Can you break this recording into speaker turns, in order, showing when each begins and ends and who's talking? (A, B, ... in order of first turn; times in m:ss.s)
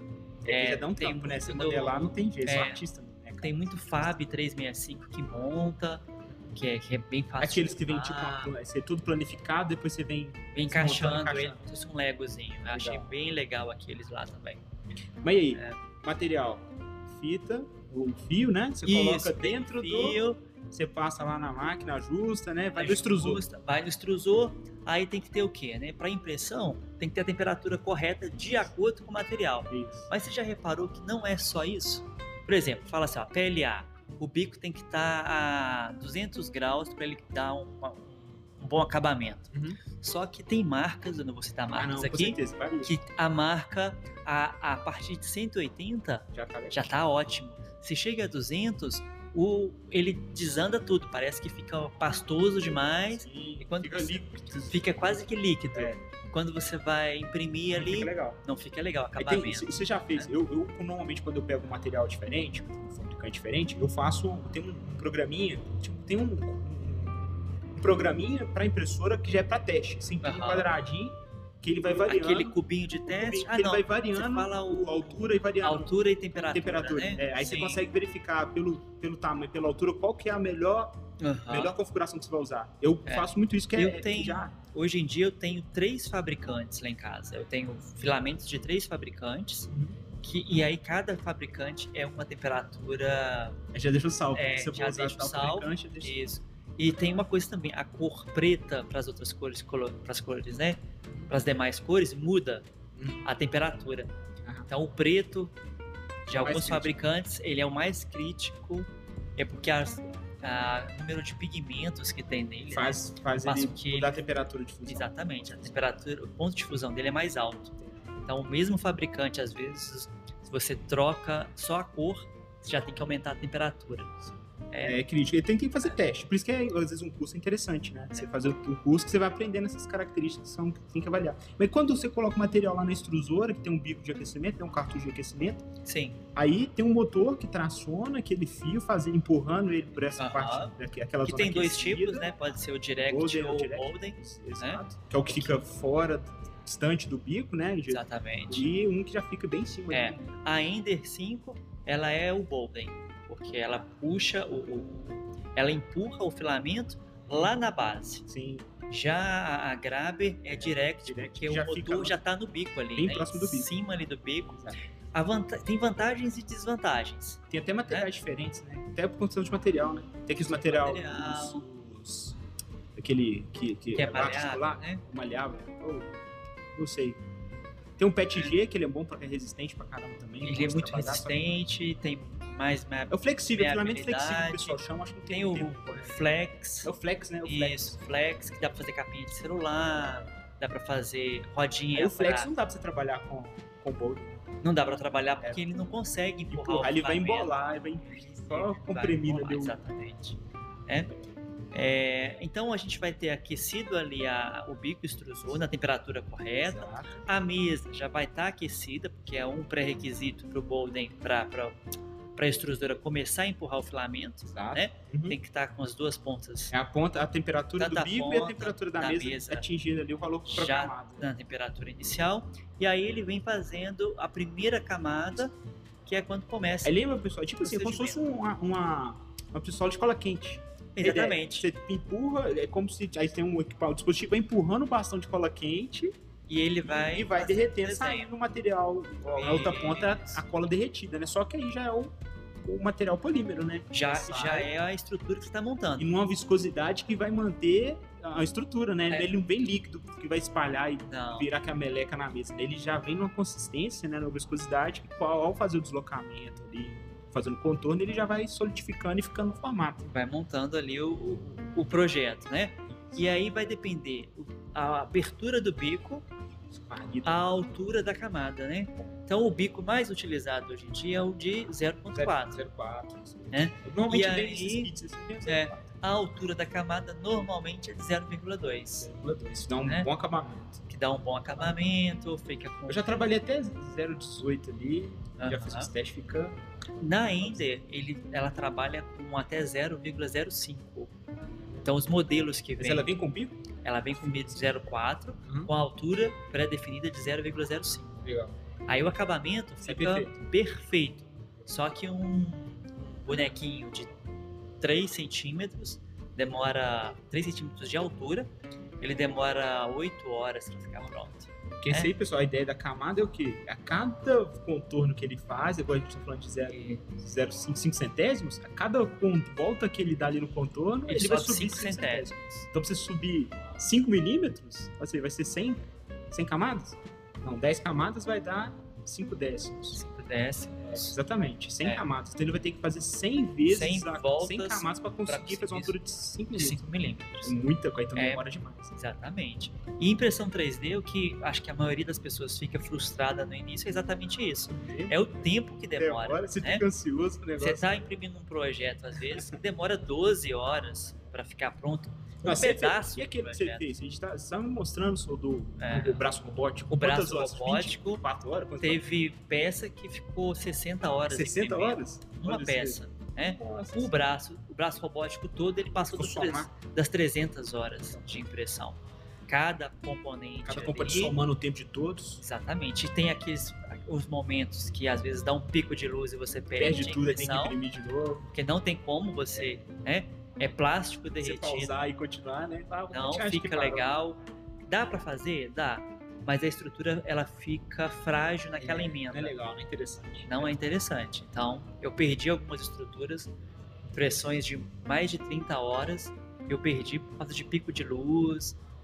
0:00.4-0:03.7 A
0:00.4-0:02.8 B
0:03.4-0:08.5 B
0:07.4-0:11.6 A
0:10.5-0:14.6 B
0:12.7-0:13.1 A
0:15.2-0:23.4 A
0:15.5-0:15.8 B
0:18.8-0:20.4 B
0:22.7-1:00.3 B
0:29.7-0:30.1 A
0:39.5-0:39.8 A
0:41.7-0:42.9 A
0:46.3-0:46.8 A
0:53.1-0:54.9 A
0:55.7-0:56.0 A
0:57.7-0:58.4 A
0:59.2-1:12.6 A
1:10.2-1:10.7 B
1:12.0-1:17.8 B
1:13.1-1:24.5 A
1:21.2-1:21.7 B
1:23.0-1:29.7 B
1:29.7-1:30.0 A
1:30.2-1:33.6 B
1:33.7-1:36.2 A
1:34.3-1:42.7 B
1:43.0-1:43.2 A
1:43.2-1:44.1 B
1:44.7-1:45.5 B
1:46.3-1:54.3 B
1:46.3-1:46.9 A
1:52.7-1:55.7 A
1:54.8-2:05.0 B
2:04.8-2:15.6 A
2:15.8-2:16.2 B
2:16.3-2:22.3 A
2:20.2-2:25.6 B
2:23.0-2:30.2 A
2:27.9-2:28.7 B
2:29.9-2:38.2 B
2:38.3-2:38.7 A
2:38.9-2:48.1 B
2:40.5-2:42.2 A
2:43.0-2:43.7 A
2:47.5-2:52.4 A
2:50.3-2:51.6 B
2:52.9-2:56.1 A
2:53.9-2:55.0 B
2:56.7-2:57.2 A
2:58.0-3:01.4 A
3:00.4-3:06.9 B
3:03.1-3:06.2 A
3:06.8-3:08.0 A
3:07.4-3:12.5 B
3:11.9-3:14.4 A
3:14.6-3:21.1 B
3:16.5-3:19.8 A
3:21.7-3:31.8 B
3:26.6-3:27.2 A
3:32.4-3:36.7 B
3:34.4-3:35.4 A
3:36.7-3:41.3 A
3:37.8-3:39.6 B
3:40.5-3:45.5 B
3:46.0-3:47.0 B
3:46.8-3:56.1 A
3:47.6-3:48.2 B
3:51.0-3:51.7 B
3:56.5-3:58.3 B
3:56.8-4:04.7 A
3:59.3-4:00.4 B
4:03.9-4:06.1 B
4:06.0-4:20.1 A
4:11.0-4:11.5 B
4:20.1-4:26.2 B
4:26.7-4:27.4 A
4:27.2-4:32.6 B
4:32.1-4:35.9 A
4:33.5-4:34.9 B
4:35.4-4:39.1 B
4:39.0-4:40.8 A
4:40.9-4:43.1 B
4:42.9-4:46.6 A
4:45.4-4:45.9 B
4:47.0-4:51.1 B
4:51.8-4:53.1 B
4:52.8-4:53.6 A
4:53.8-4:58.2 B
4:54.2-4:54.7 A
4:55.4-4:55.7 A
4:58.2-4:58.5 A
4:58.9-5:04.1 B
4:59.8-5:00.4 A
5:04.8-5:08.5 B
5:09.0-5:12.1 B
5:11.8-5:30.0 A
5:16.6-5:17.0 B
5:21.1-5:22.3 B
5:29.9-5:31.2 B
5:30.8-5:36.8 A
5:33.6-5:36.0 B
5:36.5-5:37.6 B
5:37.4-5:38.9 A
5:38.2-5:38.4 B
5:39.0-5:46.8 B
5:44.7-5:45.2 A
5:46.0-5:48.0 A
5:47.6-5:53.9 B
5:49.3-5:49.6 A
5:52.4-5:59.0 A
5:55.8-5:56.2 B
5:56.9-5:58.2 B
5:58.8-6:11.4 B
6:01.3-6:04.1 A
6:06.1-6:06.7 A
6:10.6-6:12.4 A
6:12.4-6:17.8 B
6:16.8-6:18.4 A
6:18.5-6:21.9 B
6:21.4-6:24.1 A
6:23.1-6:29.5 B
6:28.8-6:30.8 A
6:30.5-6:33.5 B
6:34.1-6:38.8 B